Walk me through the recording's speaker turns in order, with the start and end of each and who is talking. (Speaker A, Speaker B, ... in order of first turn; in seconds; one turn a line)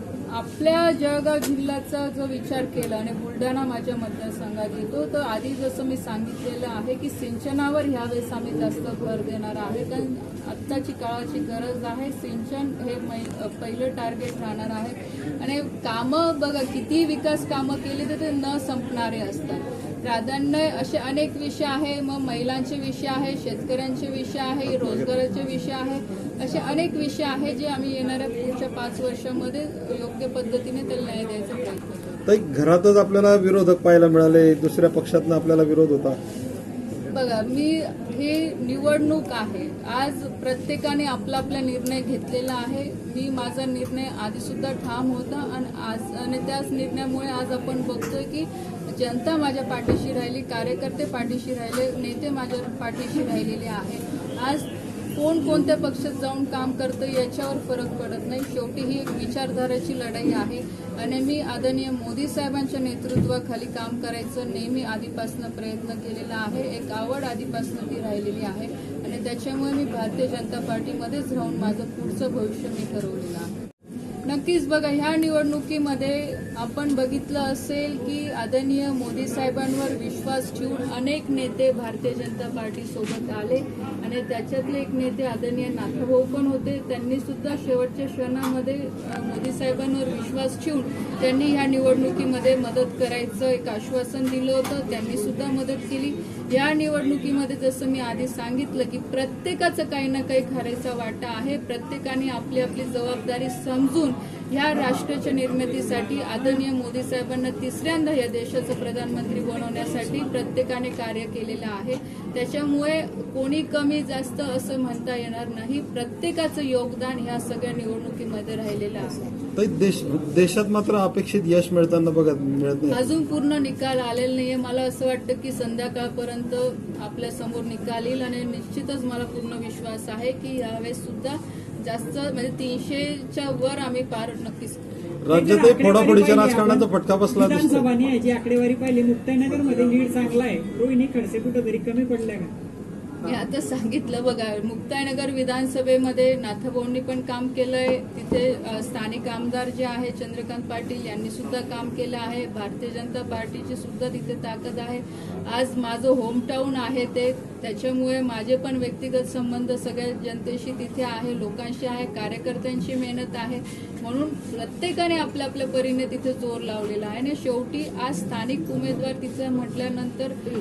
Speaker A: 0.3-32.2
Speaker B: 24.6-25.1
Speaker B: 32.3-36.2
Speaker A: 37.1-73.6
Speaker A: 74.2-119.2
Speaker B: 119.6-123.0
Speaker A: 122.9-134.8
Speaker B: 135.2-137.9
Speaker C: 135.3-142.5
Speaker A: 143.2-170.4